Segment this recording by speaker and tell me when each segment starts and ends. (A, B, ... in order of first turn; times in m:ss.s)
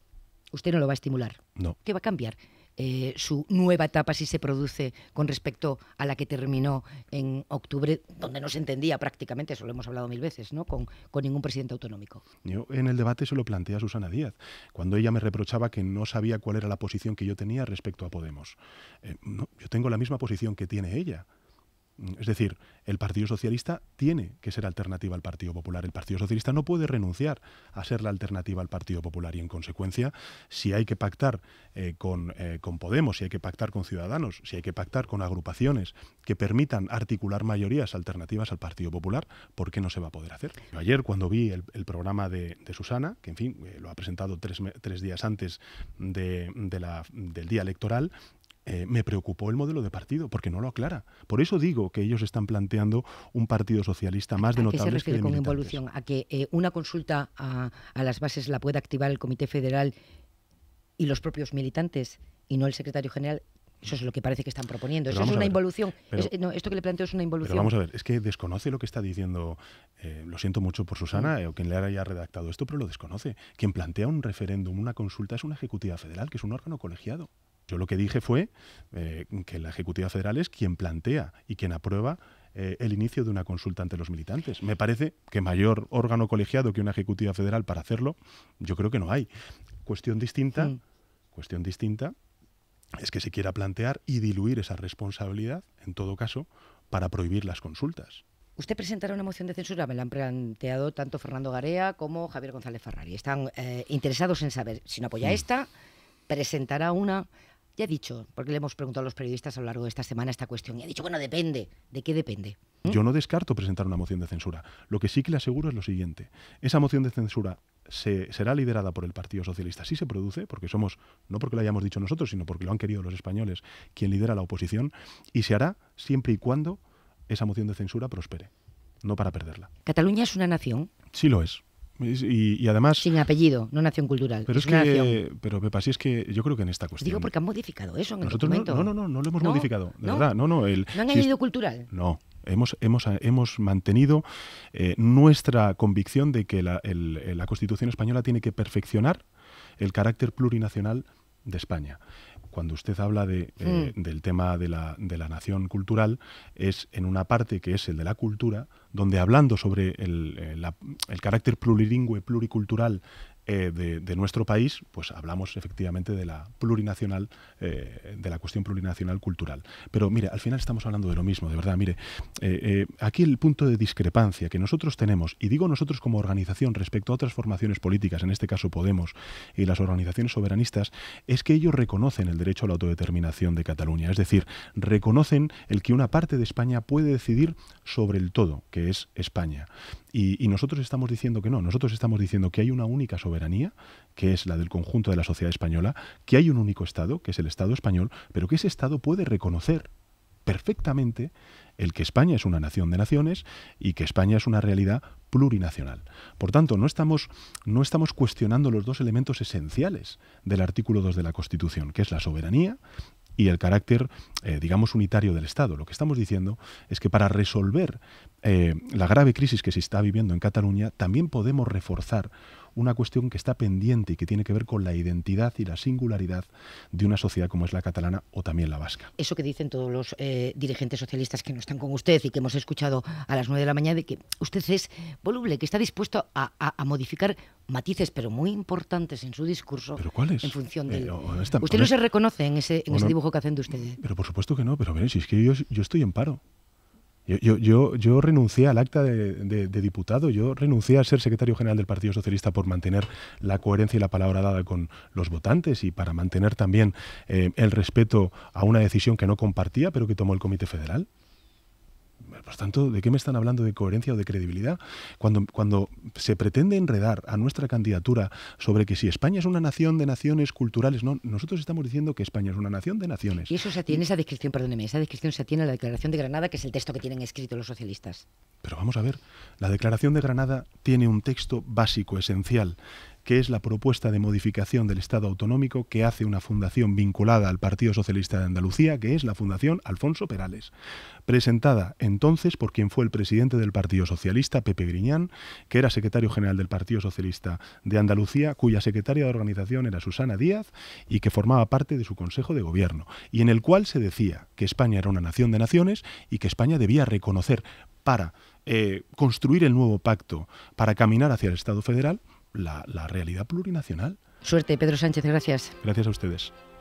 0:00.5-0:12.2 A
0:12.4-0:21.3 B
0:22.0-0:48.1 B
0:48.7-0:55.8 B
0:54.4-0:59.9 A
1:01.0-1:07.7 A
1:05.1-1:06.3 B
1:07.4-1:29.3 B
1:29.8-1:30.8 B
1:31.3-1:32.2 B
1:33.0-1:38.2 B
1:38.6-1:45.7 A
1:46.3-1:52.8 A
1:52.8-2:08.5 B
2:09.0-2:09.7 B
2:09.8-2:10.9 A
2:11.1-2:13.1 B
2:13.0-2:15.2 A
2:14.5-2:17.3 B
2:17.0-2:20.3 A
2:18.2-2:21.3 B
2:20.9-2:21.9 A
2:21.9-2:29.2 B
2:29.8-2:32.0 B
2:32.5-3:19.9 B
2:33.7-2:33.9 A
3:20.5-3:32.8 B
3:33.4-3:49.1 B
3:49.2-4:04.0 A
4:00.0-4:01.9 B
4:02.9-4:03.2 B
4:04.0-4:06.4 B
4:07.3-4:21.1 B
4:22.2-4:34.0 B
4:33.5-4:38.2 A
4:38.6-4:50.7 B
4:51.3-5:14.2 B
5:14.4-5:15.8 A
5:15.8-5:16.5 B